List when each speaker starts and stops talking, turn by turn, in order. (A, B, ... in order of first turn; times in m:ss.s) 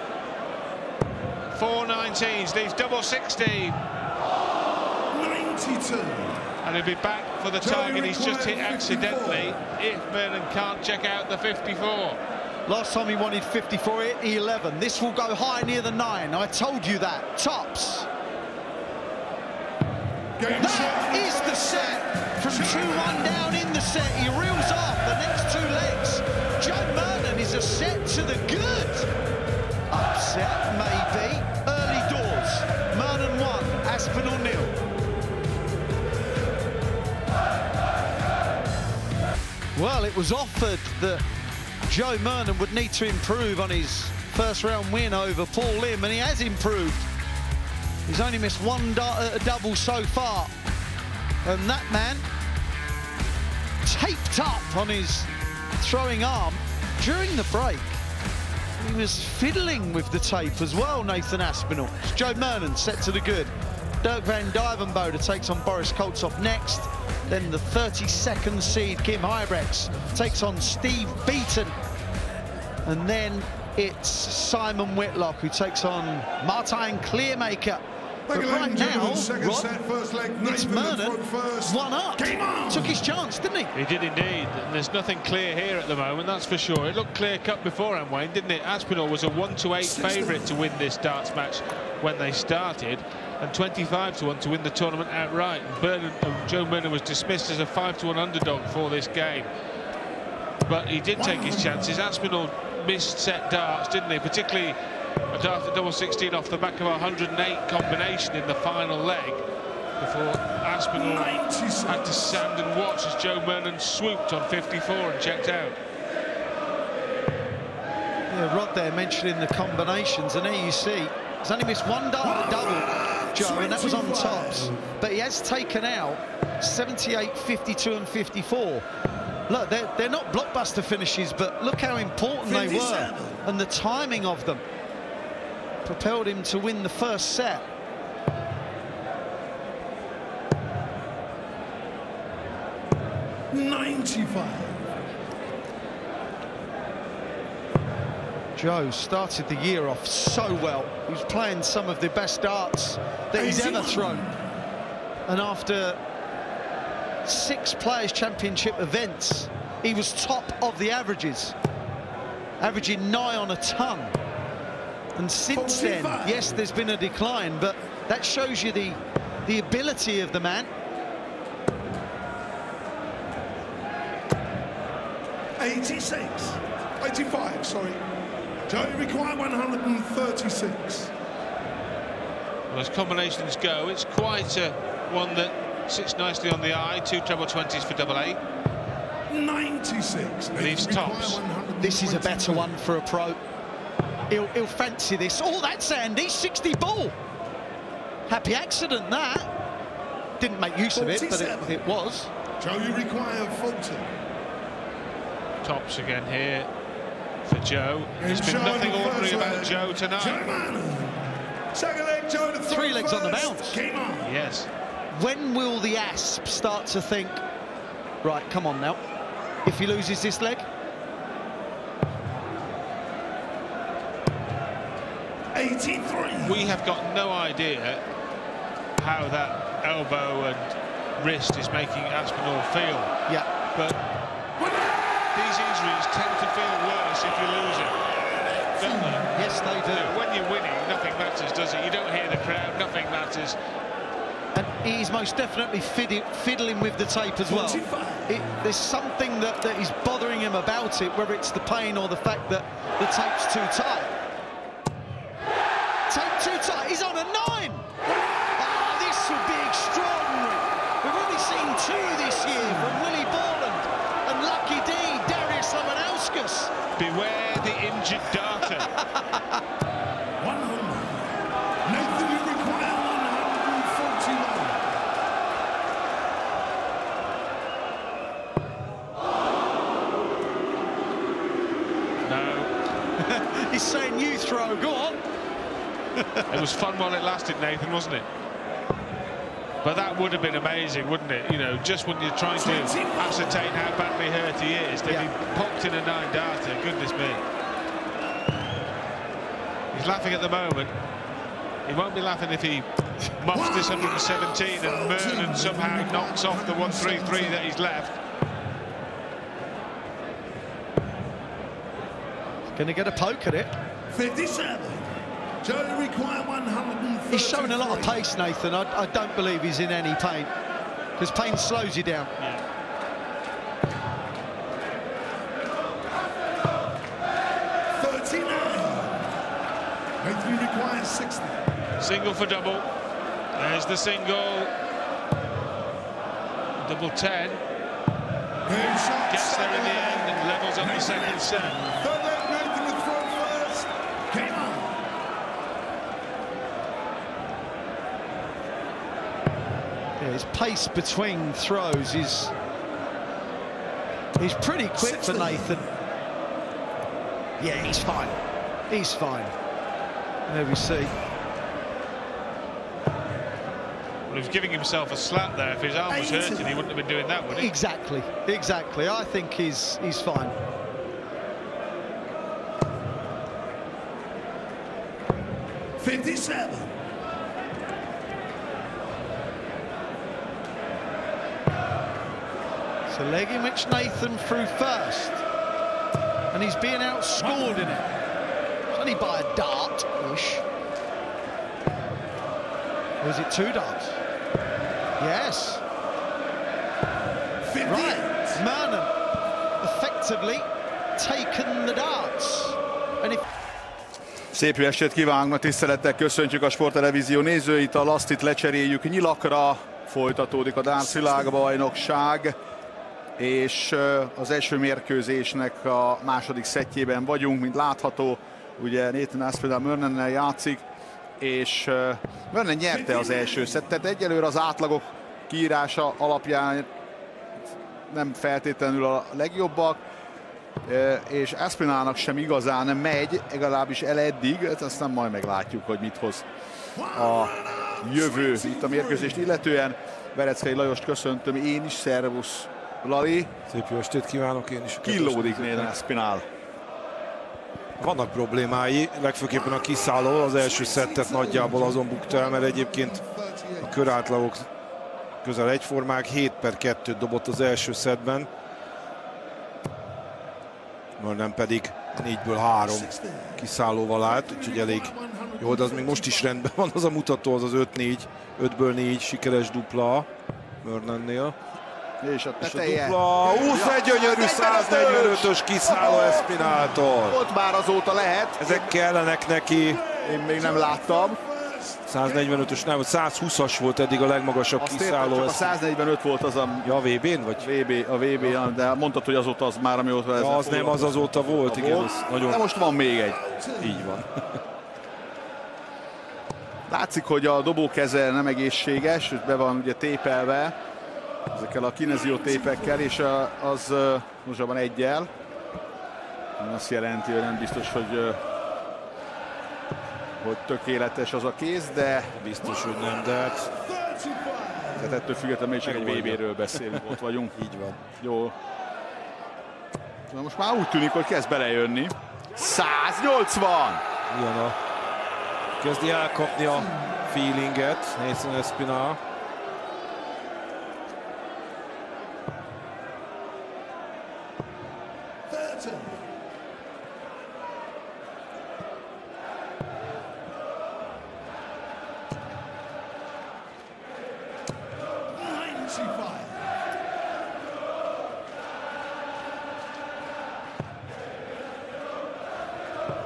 0:01.5-0:03.8 A
0:05.1-0:06.5 B
0:06.6-0:12.2 A
0:07.6-0:09.6 B
0:12.6-0:18.1 C
0:20.4-0:23.6 B
0:20.5-0:29.1 C
0:29.9-0:34.8 C
0:39.7-0:41.2 C
0:41.8-0:47.1 C
0:48.0-0:50.5 C
0:51.4-0:52.2 C
0:53.8-0:58.0 C
0:58.8-1:11.7 C
1:12.8-1:19.7 C
1:18.3-1:23.0 B
1:20.4-1:23.7 C
1:23.7-1:39.5 A
1:29.8-1:30.6 B
1:40.6-1:44.8 A
1:41.1-1:42.0 B
1:45.3-1:49.4 A
1:50.0-1:55.8 A
1:50.9-1:52.4 B
1:58.3-2:08.8 C
2:02.2-2:04.8 B
2:09.5-2:14.6 C
2:12.4-2:13.4 B
2:15.8-2:17.6 C
2:23.5-2:24.9 B
2:28.5-2:34.3 C
2:33.4-2:34.5 B
2:35.3-2:36.0 C
2:37.2-2:41.6 C
2:42.6-2:44.2 C
2:45.2-2:50.7 C
2:45.5-2:46.6 B
2:55.6-2:58.0 B
2:58.7-3:01.1 B
3:02.7-3:08.4 A
3:09.3-3:12.7 B
3:10.5-3:11.4 A
3:11.8-3:13.4 C
3:14.3-3:17.2 C
3:18.3-3:19.5 C
3:20.4-3:22.3 C
3:20.9-3:21.8 B
3:22.6-3:24.1 B
3:25.6-3:26.7 A
3:27.4-3:30.5 A
3:28.2-3:34.4 B
3:32.7-3:33.8 C
3:34.2-3:34.7 A
3:35.1-3:37.4 C
3:38.2-3:39.0 C
3:39.6-3:40.6 C
3:45.5-3:46.7 B
3:46.4-3:48.0 A
3:49.0-3:53.2 A
3:54.6-3:55.1 B
3:55.3-3:58.0 A
3:58.3-3:59.5 B
3:58.8-4:03.6 A
3:59.3-4:00.1 C
4:04.5-4:14.2 C
4:07.5-4:08.5 B
4:16.1-4:17.9 C
4:18.6-4:26.7 C
4:22.7-4:23.0 B
4:27.0-4:28.9 A
4:28.6-4:29.6 C
4:30.4-4:31.3 B
4:31.8-4:34.8 B
4:42.2-4:42.7 A
4:43.2-4:45.2 C
4:46.2-4:46.4 C
4:46.5-4:48.3 A
4:49.8-4:57.4 A
4:52.6-4:53.6 B
4:59.9-5:00.9 A
5:01.8-5:08.2 A
5:03.5-5:07.6 B
5:12.7-5:13.7 C
5:14.1-5:18.2 B
5:17.3-5:20.5 C
5:21.2-5:22.3 C
5:22.4-5:22.6 A
5:27.9-5:29.3 B
5:30.2-5:31.6 B
5:32.0-5:32.9 A
5:33.5-5:34.7 A
5:36.8-5:37.6 A
5:38.6-5:45.0 B
5:39.3-5:41.9 A
5:50.2-5:52.5 C
5:54.4-5:55.8 C
5:55.0-5:55.9 B
5:57.6-5:59.5 C
6:00.5-6:01.1 C
6:04.3-6:07.7 A
6:06.1-6:06.9 B
6:07.4-6:10.6 C
6:16.0-6:16.9 B
6:23.1-6:25.4 C
6:26.5-6:28.0 C
6:27.4-6:28.1 B
6:28.9-6:30.6 C
6:33.2-6:34.2 C
6:35.2-6:35.8 C
6:37.6-6:38.6 B
6:37.8-6:39.1 C
6:39.8-6:43.4 C
6:44.5-6:52.5 D
6:53.4-7:00.8 D
7:01.4-7:06.9 D
7:02.9-7:03.8 B
7:08.1-7:10.0 D
7:10.8-7:16.4 D
7:16.9-7:19.5 B
7:17.1-7:23.5 D
7:23.7-7:25.9 E
7:25.0-7:26.4 D
7:28.0-7:33.2 E
7:29.5-7:34.1 B
7:33.8-7:34.6 E
7:35.4-7:38.5 E
7:41.2-7:50.3 E
7:42.8-7:43.6 B
7:44.2-7:46.6 B
7:50.8-7:51.5 E
7:52.2-7:58.9 D
7:52.6-7:57.4 E
7:53.5-7:53.9 B
7:58.6-8:00.0 E
7:59.8-8:02.8 B
8:00.2-8:01.4 D
8:02.1-8:05.8 E
8:04.8-8:06.9 D
8:06.8-8:07.7 E
8:07.6-8:14.1 D
8:10.3-8:12.6 E
8:11.8-8:14.2 B
8:16.9-8:20.7 D
8:21.5-8:25.3 D
8:22.0-8:23.2 B
8:26.6-8:28.4 D
8:30.4-8:32.3 D
8:32.3-8:33.7 E
8:32.6-8:35.2 B
8:35.0-8:37.6 D
8:35.8-8:38.0 E
8:38.1-8:38.5 D
8:40.3-8:44.0 D
8:44.3-8:44.8 E
8:45.8-8:49.2 E
8:46.6-8:47.2 B
8:55.5-8:56.2 B
9:05.3-9:06.7 B